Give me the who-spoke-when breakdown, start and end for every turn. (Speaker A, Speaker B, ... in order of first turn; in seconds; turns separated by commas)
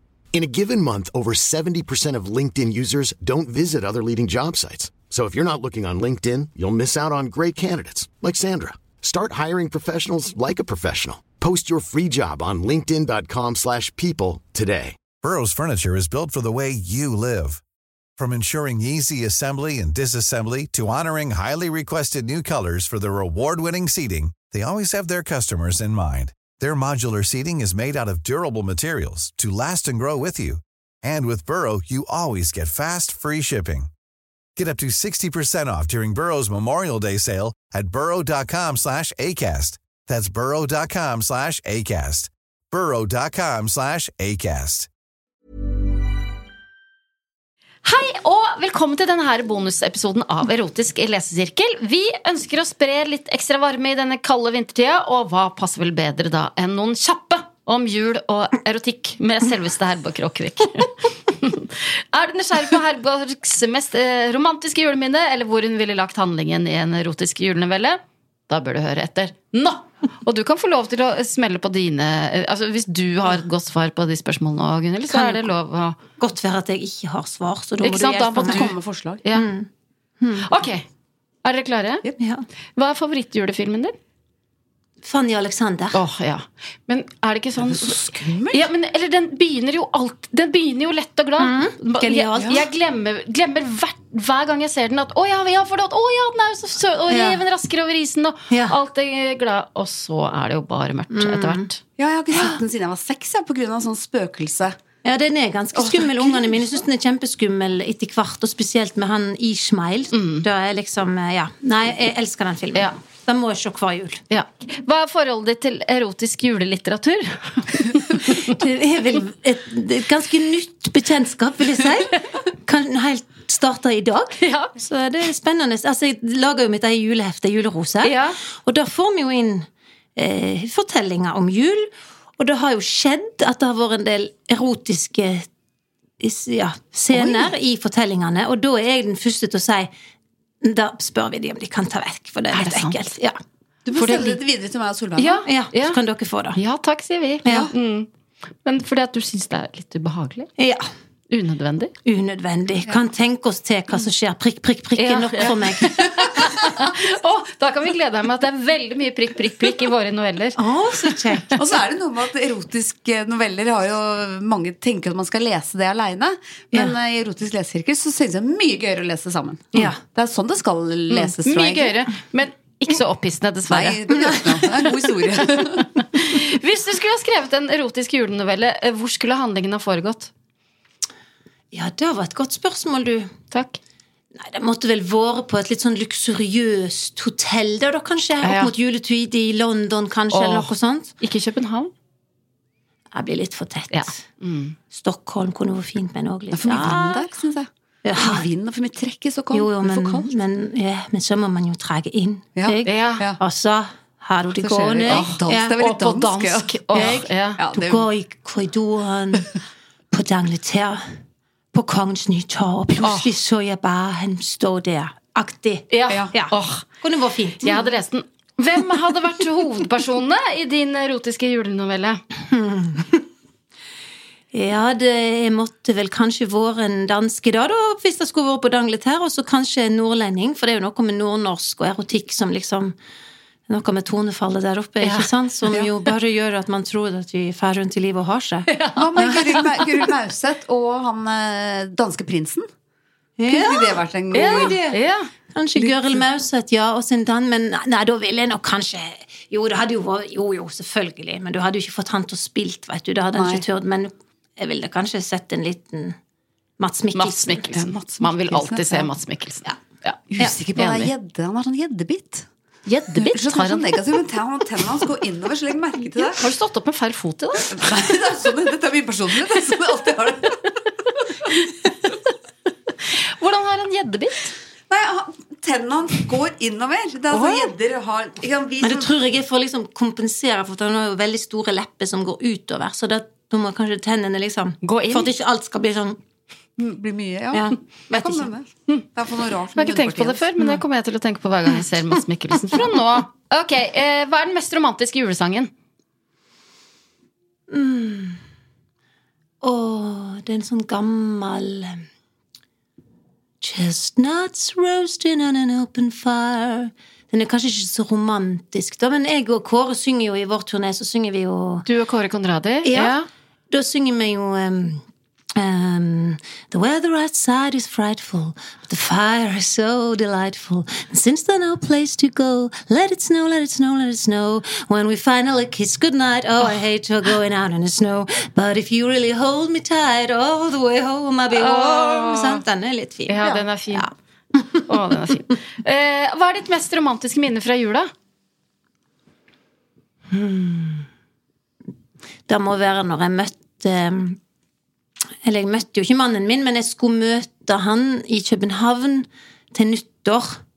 Speaker A: 0.3-15.0, Speaker B: 15.2-17.6, Speaker B: 18.2-33.9, Speaker B: 34.6-44.9, Speaker C: 47.8-76.0, Speaker D: 75.1-75.5, Speaker D: 76.2-78.8, Speaker C: 77.8-78.7, Speaker E: 78.2-79.2, Speaker D: 79.3-79.7, Speaker D: 80.2-80.5, Speaker C: 80.4-80.8, Speaker C: 81.4-82.0, Speaker D: 82.2-82.5, Speaker C: 82.8-84.0, Speaker D: 85.0-86.0, Speaker C: 85.9-87.9, Speaker E: 87.6-88.7, Speaker C: 88.5-101.8, Speaker D: 91.4-92.6, Speaker E: 92.4-92.7, Speaker E: 97.1-97.4, Speaker D: 98.5-98.8, Speaker D: 101.1-101.7, Speaker E: 102.0-104.8, Speaker D: 102.3-102.6, Speaker D: 105.0-114.2, Speaker E: 105.7-106.7, Speaker C: 110.1-110.5, Speaker C: 114.3-118.5, Speaker D: 118.2-135.4, Speaker C: 124.4-124.7, Speaker C: 128.0-128.4, Speaker D: 136.2-139.9, Speaker C: 137.1-137.5, Speaker D: 140.6-143.4, Speaker C: 142.5-143.0, Speaker E: 143.8-145.4, Speaker C: 144.0-144.4, Speaker C: 145.2-146.0, Speaker D: 145.4-146.6, Speaker C: 146.6-148.1, Speaker D: 147.4-147.7, Speaker C: 148.6-150.5, Speaker D: 150.6-150.8, Speaker C: 151.3-151.9, Speaker D: 152.1-156.4, Speaker C: 155.0-160.6, Speaker D: 160.6-161.6, Speaker E: 161.6-172.0, Speaker D: 169.7-170.0, Speaker C: 171.1-174.0, Speaker E: 173.7-175.9, Speaker D: 174.1-174.8, Speaker C: 175.8-180.3, Speaker D: 181.7-183.3, Speaker C: 183.5-183.8, Speaker D: 184.3-191.1, Speaker C: 188.4-188.7, Speaker C: 190.3-191.9, Speaker D: 193.1-194.2, Speaker C: 193.9-194.8, Speaker D: 194.9-197.3, Speaker E: 196.5-200.3, Speaker D: 198.0-198.5, Speaker D: 199.5-205.7, Speaker E: 202.6-203.4, Speaker C: 202.8-203.2, Speaker E: 204.6-208.1, Speaker C: 205.1-207.6, Speaker D: 206.9-209.5, Speaker D: 210.1-211.0, Speaker D: 211.7-217.9, Speaker C: 213.0-213.3, Speaker C: 215.9-216.8, Speaker E: 216.1-216.3, Speaker C: 217.6-222.2, Speaker D: 222.5-223.2, Speaker D: 224.5-233.0, Speaker D: 233.7-239.7, Speaker C: 235.0-235.3, Speaker C: 238.7-239.7, Speaker E: 239.0-242.7, Speaker D: 243.4-245.0, Speaker E: 243.5-244.8, Speaker C: 244.3-245.3, Speaker D: 245.5-256.2, Speaker E: 245.8-246.2, Speaker E: 253.3-253.7, Speaker D: 256.8-257.8, Speaker C: 257.1-260.2, Speaker E: 258.2-259.1, Speaker E: 260.3-262.5, Speaker C: 260.8-261.1, Speaker C: 262.9-263.9, Speaker E: 263.1-266.4, Speaker C: 266.3-267.7, Speaker E: 267.7-271.5, Speaker C: 273.4-274.5, Speaker E: 274.9-279.1, Speaker C: 277.3-277.7, Speaker D: 278.8-286.2, Speaker C: 284.8-285.3, Speaker E: 286.8-290.5, Speaker D: 287.5-288.5, Speaker C: 289.7-295.7, Speaker D: 297.7-298.4, Speaker D: 299.6-302.0, Speaker D: 303.6-311.9, Speaker C: 311.9-313.3, Speaker D: 312.8-315.0, Speaker D: 315.6-334.1, Speaker C: 331.5-332.6, Speaker C: 333.3-334.1, Speaker E: 333.4-333.7, Speaker C: 334.9-338.1, Speaker D: 340.3-341.1, Speaker D: 342.5-344.4, Speaker D: 345.4-350.6